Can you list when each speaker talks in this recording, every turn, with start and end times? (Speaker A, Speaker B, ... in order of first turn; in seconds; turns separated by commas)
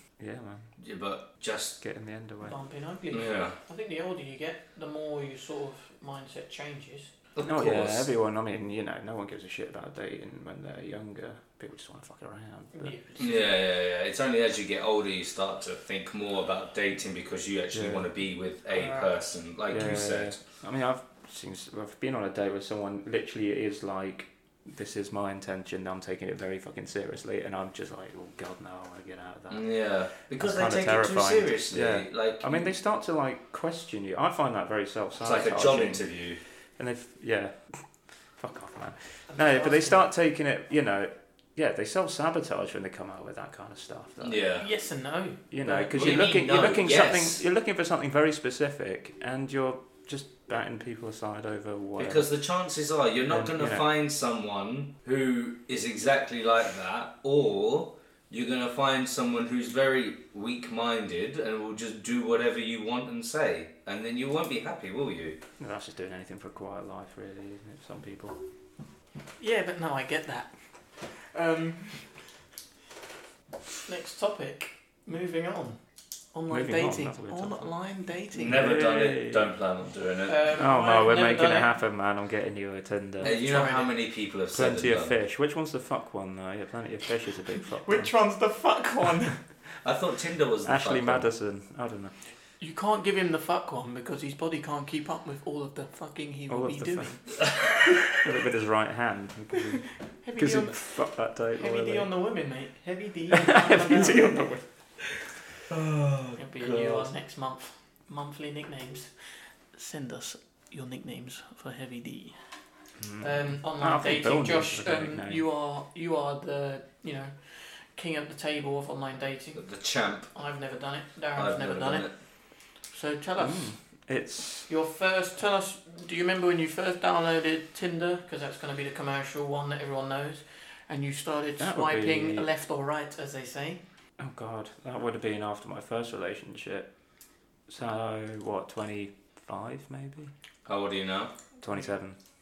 Speaker A: 0.2-0.7, Speaker B: 0.8-1.8, Speaker A: 1.8-2.5, Speaker C: 2.4-7.1, Speaker B: 3.1-3.5, Speaker B: 7.3-8.1, Speaker A: 7.4-12.9, Speaker C: 12.7-13.5, Speaker B: 13.2-20.4, Speaker A: 17.7-18.1, Speaker C: 18.7-19.1, Speaker A: 19.7-29.7, Speaker B: 29.5-32.7, Speaker A: 30.4-36.0, Speaker B: 35.2-36.4, Speaker A: 36.8-37.9, Speaker A: 38.4-44.4, Speaker C: 39.3-40.0, Speaker B: 44.2-44.6, Speaker C: 44.5-46.8, Speaker A: 45.5-52.3, Speaker B: 45.9-47.4, Speaker B: 52.0-65.4, Speaker A: 53.3-53.9, Speaker A: 65.6-68.4, Speaker C: 69.4-72.2, Speaker C: 73.8-75.8, Speaker C: 76.3-78.6, Speaker A: 76.5-77.7, Speaker B: 78.3-80.5, Speaker A: 78.4-79.5, Speaker C: 80.3-81.7, Speaker A: 80.6-83.3, Speaker C: 83.2-83.9, Speaker B: 83.2-85.2, Speaker A: 84.5-88.1, Speaker C: 87.8-89.4, Speaker B: 89.8-91.3, Speaker A: 90.6-92.1, Speaker C: 92.6-97.4, Speaker A: 96.5-97.4, Speaker B: 97.4-97.9, Speaker A: 98.1-102.1, Speaker C: 100.2-104.5, Speaker A: 103.3-104.7, Speaker B: 105.7-107.0, Speaker C: 106.4-112.4, Speaker A: 113.0-115.4, Speaker C: 113.2-119.6, Speaker B: 119.5-120.3, Speaker C: 120.3-122.1, Speaker B: 121.4-122.1, Speaker C: 122.8-123.7, Speaker A: 123.4-124.7, Speaker C: 124.7-133.8, Speaker A: 131.6-132.5, Speaker A: 134.2-136.9, Speaker A: 137.7-140.3, Speaker B: 140.7-141.3, Speaker A: 141.6-142.2